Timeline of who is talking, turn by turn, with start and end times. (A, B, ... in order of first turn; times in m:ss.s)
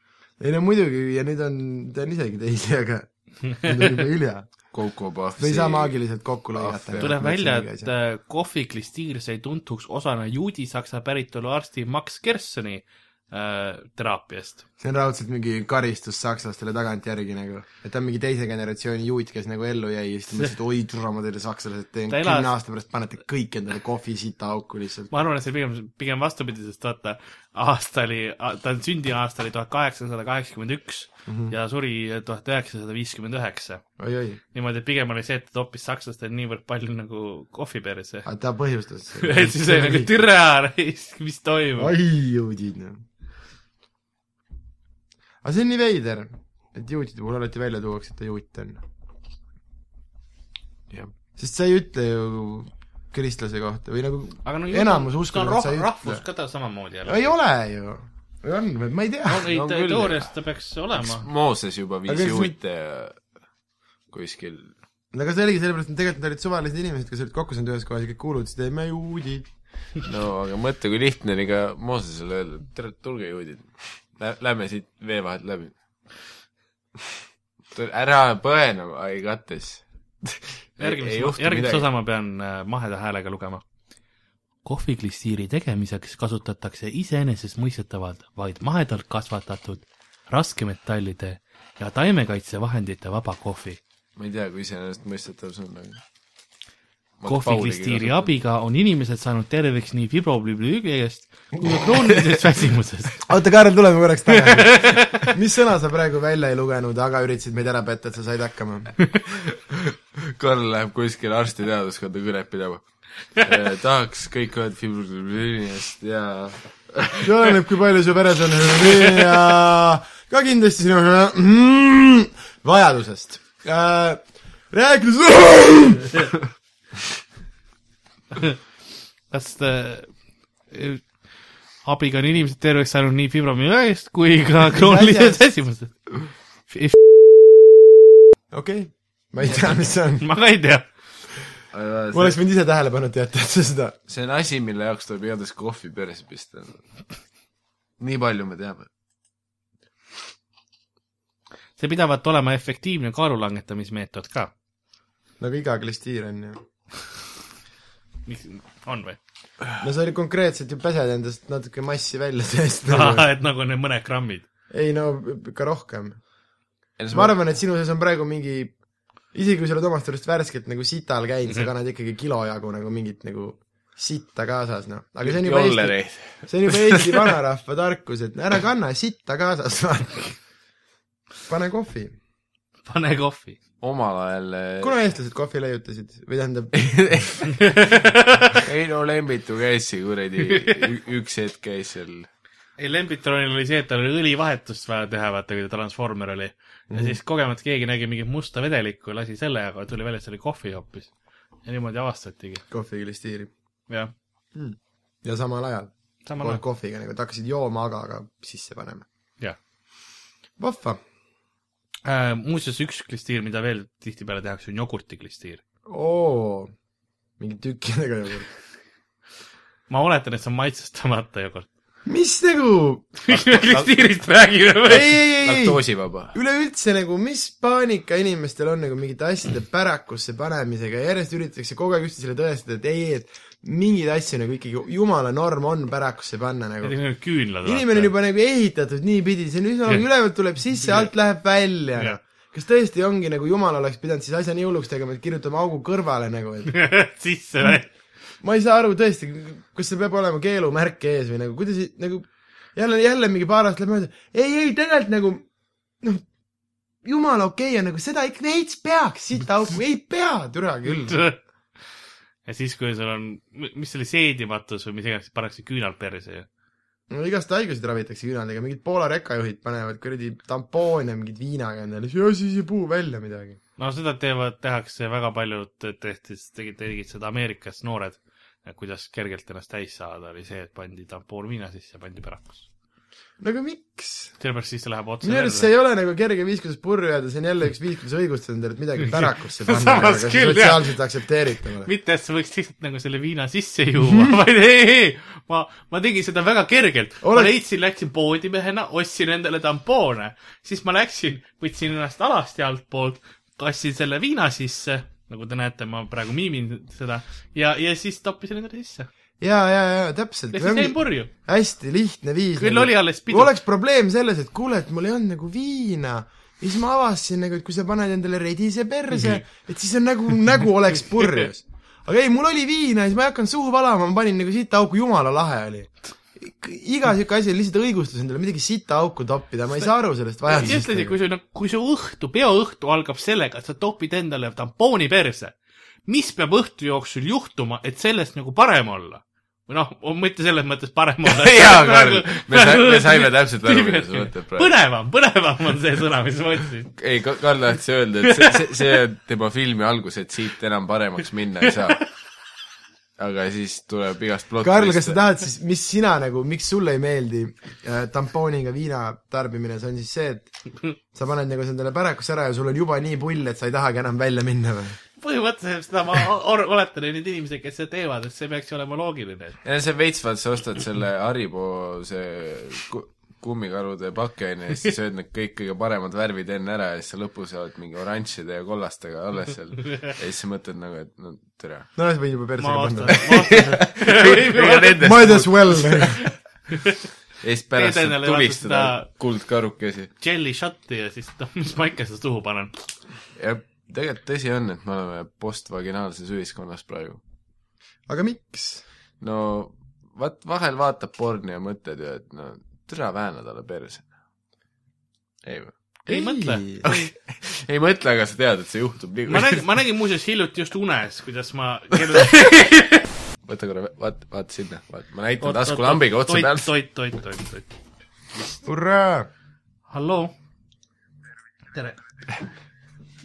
0:00.4-0:04.5 A
0:04.7-0:06.0 B
0:05.4-0:07.9 A
0:06.5-0:07.1 B
0:07.0-0:14.6 C
0:14.8-0:25.1 A
0:22.1-0:22.5 C
0:25.1-0:33.8 C
0:31.3-0:31.6 A
0:34.0-0:34.4 A
0:34.5-0:38.3 C
0:38.2-0:40.2 A
0:39.2-0:41.9 C
0:41.8-0:43.0 A
0:45.4-0:48.8 A
0:51.4-0:56.2 A
0:54.4-0:57.4 C
0:57.0-0:59.5 A
0:59.3-1:01.3 C
0:59.5-1:00.3 B
1:01.0-1:03.2 B
1:02.1-1:02.5 A
1:04.1-1:04.8 B
1:05.1-1:09.5 A
1:10.0-1:15.7 B
1:17.7-1:21.9 B
1:20.8-1:23.6 C
1:24.6-1:33.8 C
1:34.2-1:36.0 B
1:37.2-1:38.3 B
1:37.3-1:43.2 C
1:43.2-1:49.0 A
1:44.3-1:45.3 C
1:49.2-1:57.5 B
1:57.2-2:06.3 A
2:09.3-2:10.1 C
2:10.7-2:11.1 C
2:11.8-2:16.0 C
2:14.7-2:15.4 A
2:16.7-2:17.0 C
2:18.5-2:20.3 A
2:20.2-2:20.9 C
2:21.7-2:22.4 B
2:22.1-2:24.0 A
2:24.1-2:26.8 B
2:28.0-2:28.9 B
2:31.8-2:34.5 C
2:35.4-2:36.6 A
2:38.3-2:39.2 C
2:39.8-2:43.3 A
2:42.9-2:44.4 C
2:44.7-2:46.2 A
2:47.0-2:47.4 B
2:47.1-2:48.8 A
2:49.3-3:00.4 A
2:55.2-2:57.3 B
3:01.5-3:02.2 A
3:02.8-3:03.6 C
3:03.8-3:05.0 B
3:04.8-3:07.0 A
3:06.7-3:07.7 B
3:07.6-3:08.6 C
3:08.6-3:12.3 B
3:12.8-3:21.1 C
3:16.9-3:17.2 A
3:21.6-3:22.6 C
3:22.7-3:23.5 A
3:24.5-3:29.1 A
3:26.2-3:26.6 C
3:30.6-3:31.0 A
3:32.0-3:35.6 C
3:35.9-3:36.7 A
3:37.4-3:38.5 A
3:39.9-3:41.7 C
3:42.1-3:43.1 A
3:43.2-3:45.1 C
3:43.3-3:43.9 B
3:44.9-3:57.0 A
3:44.9-3:46.4 B
3:56.8-3:58.1 C
3:57.6-4:06.7 A
4:06.7-4:07.9 C
4:08.4-4:15.5 A
4:16.0-4:16.3 A
4:17.0-4:21.2 A
4:20.9-4:21.4 C
4:22.4-4:26.5 C
4:27.1-4:33.6 A
4:33.8-4:42.7 C
4:43.4-4:44.4 A
4:44.4-4:45.7 C
4:45.2-4:51.9 A
4:49.0-4:51.0 C
4:51.8-5:09.1 C
4:57.2-4:57.5 A
5:09.4-5:31.2 A
5:10.5-5:11.3 C
5:12.6-5:13.5 C
5:30.4-5:46.9 C
5:41.2-5:44.8 B
5:47.0-5:52.1 B
5:48.3-5:48.6 C
5:53.2-5:55.2 B
5:54.6-6:00.5 A
6:01.1-6:05.0 A
6:05.2-6:09.6 C
6:09.6-6:21.9 B
6:22.0-6:23.6 A
6:22.6-6:25.1 C
6:23.1-6:26.3 B
6:25.0-6:26.3 A
6:27.4-6:30.1 B
6:27.8-6:29.1 C
6:30.2-6:32.8 C
6:33.4-6:37.2 B
6:38.1-6:38.8 A
6:39.2-6:44.1 B
6:45.4-6:45.7 B
6:46.1-6:47.1 C
6:46.1-6:46.9 A
6:46.8-6:49.6 B
6:49.3-6:53.0 C
6:53.5-6:56.7 B
6:55.4-6:57.7 C
6:58.6-6:59.3 A
6:59.9-7:00.3 C
7:01.7-7:02.0 C